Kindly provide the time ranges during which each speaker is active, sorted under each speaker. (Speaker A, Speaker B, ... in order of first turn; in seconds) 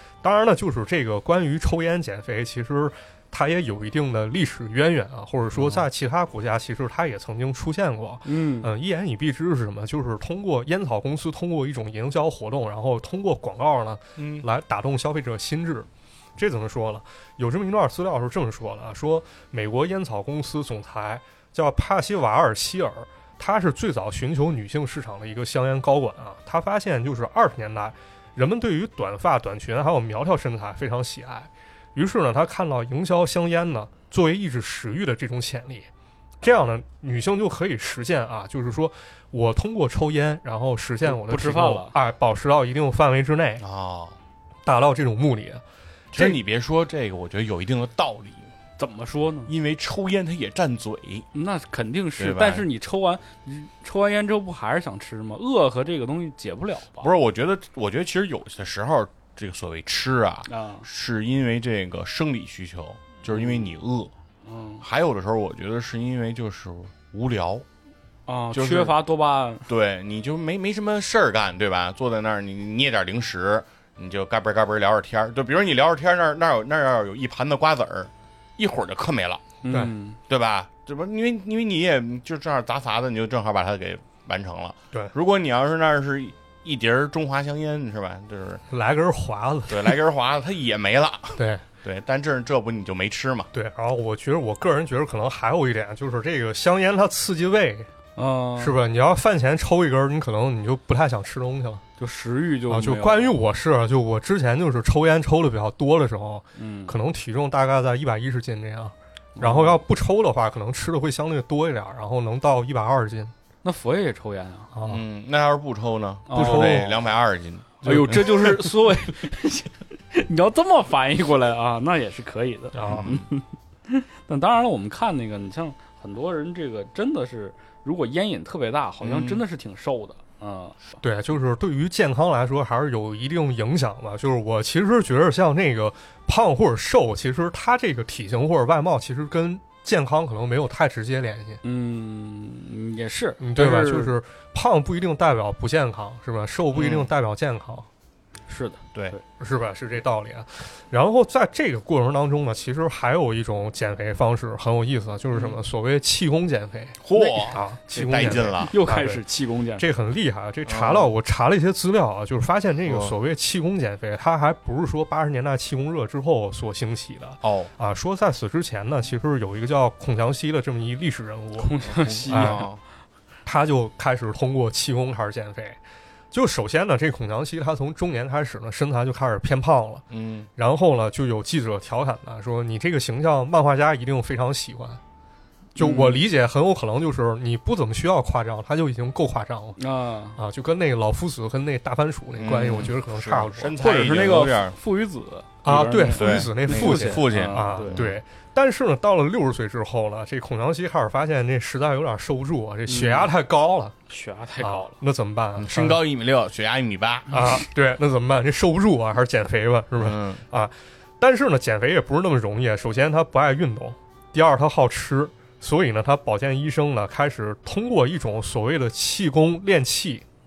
Speaker A: 0.2-35.9, 36.4-43.6, 44.7-45.6, 88.7-90.0, 91.4-91.6, 93.5-97.9, 98.6-101.8, 102.7-113.3, 114.7-115.0, 116.3-117.1, 117.9-118.5, 122.7-123.1, 131.0-141.6, 143.4-147.9, 149.4-159.2, 159.8-171.7, 172.3-172.7, 173.5-175.8, 176.3-180.0, 180.6-185.0, 185.8-189.8, 190.4-193.8, 195.7-203.9, 204.6-206.0, 207.3-220.2
Speaker B: 8.2-8.7, 41.1-41.9, 48.8-49.5, 51.3-57.1, 60.5-60.9, 63.3-63.7, 64.5-64.8, 68.3-69.7, 79.6-80.2, 98.2-98.7, 102.0-103.4, 106.6-107.0, 109.4-109.8, 113.6-114.7, 116.3-116.9, 117.8-130.8, 141.6-144.2, 148.5-149.2, 158.1-159.9, 171.6-172.7, 185.8-186.2, 189.8-190.4, 193.8-198.1, 202.9-203.3, 204.1-204.9
Speaker C: 14.2-14.5, 43.6-44.2, 46.1-48.5, 49.5-51.3, 52.2-52.7, 57.0-64.1, 64.8-67.7, 68.5-69.0, 69.7-79.5, 80.3-88.6, 89.7-93.5, 114.9-118.5, 122.8-123.2, 129.0-129.4, 146.7-147.1, 157.0-158.7, 160.7-161.1, 162.9-163.1, 167.4-167.7, 171.9-172.8, 180.1-180.5, 192.4-194.8, 196.1-198.2, 205.6-207.4, 210.0-210.4